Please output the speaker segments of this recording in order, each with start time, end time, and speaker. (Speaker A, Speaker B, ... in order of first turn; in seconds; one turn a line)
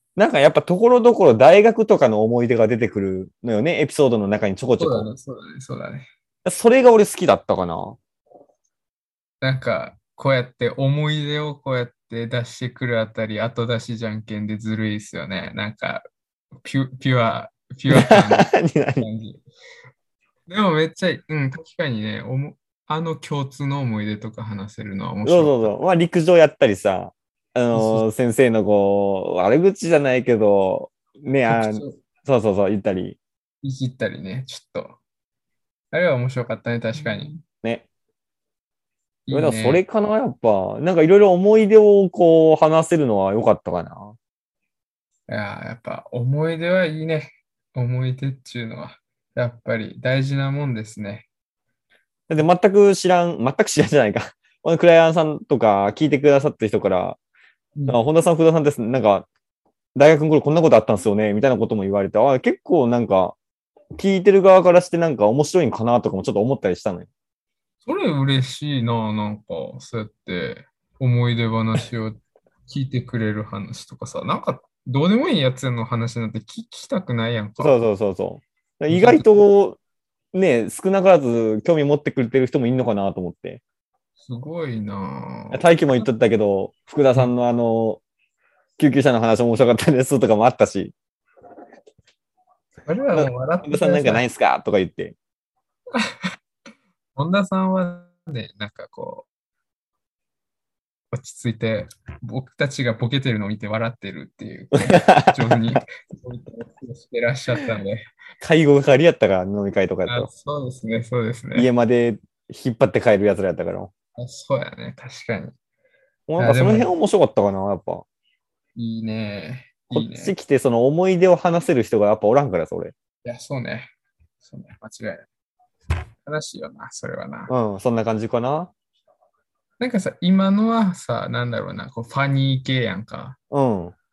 Speaker A: 0.2-5.1
Speaker B: 4.8-6.1
Speaker A: 6.5-8.0
Speaker B: 9.4-16.1
Speaker B: 16.6-19.4
Speaker A: 17.9-19.1
Speaker B: 20.5-25.7
Speaker A: 25.2-33.2
Speaker B: 27.7-28.1
Speaker B: 31.5-32.0
Speaker B: 33.6-35.0
Speaker B: 35.9-37.4
Speaker B: 39.3-39.8
Speaker A: 39.3-44.2
Speaker B: 45.3-51.3
Speaker A: 52.3-57.2
Speaker A: 57.9-59.3
Speaker A: 60.0-63.4
Speaker A: 64.0-67.1
Speaker B: 67.8-77.8
Speaker A: 77.6-79.8
Speaker B: 78.9-79.4
Speaker A: 80.3-83.6
Speaker B: 84.2-86.1
Speaker A: 85.5-88.0
Speaker A: 88.8-90.9
Speaker B: 92.8-94.2
Speaker A: 93.1-95.2
Speaker B: 97.2-99.3
Speaker B: 101.1-108.1
Speaker A: 104.7-105.4
Speaker A: 108.4-110.3
Speaker B: 110.1-111.7
Speaker A: 111.5-113.9
Speaker B: 114.2-115.5
Speaker A: 116.3-118.0
Speaker B: 116.4-116.9
Speaker B: 118.8-120.3
Speaker A: 119.9-122.9
Speaker B: 123.2-123.9
Speaker B: 124.4-125.3
Speaker B: 126.2-127.5
Speaker A: 127.5-128.7
Speaker B: 129.8-133.4
Speaker A: 133.5-133.9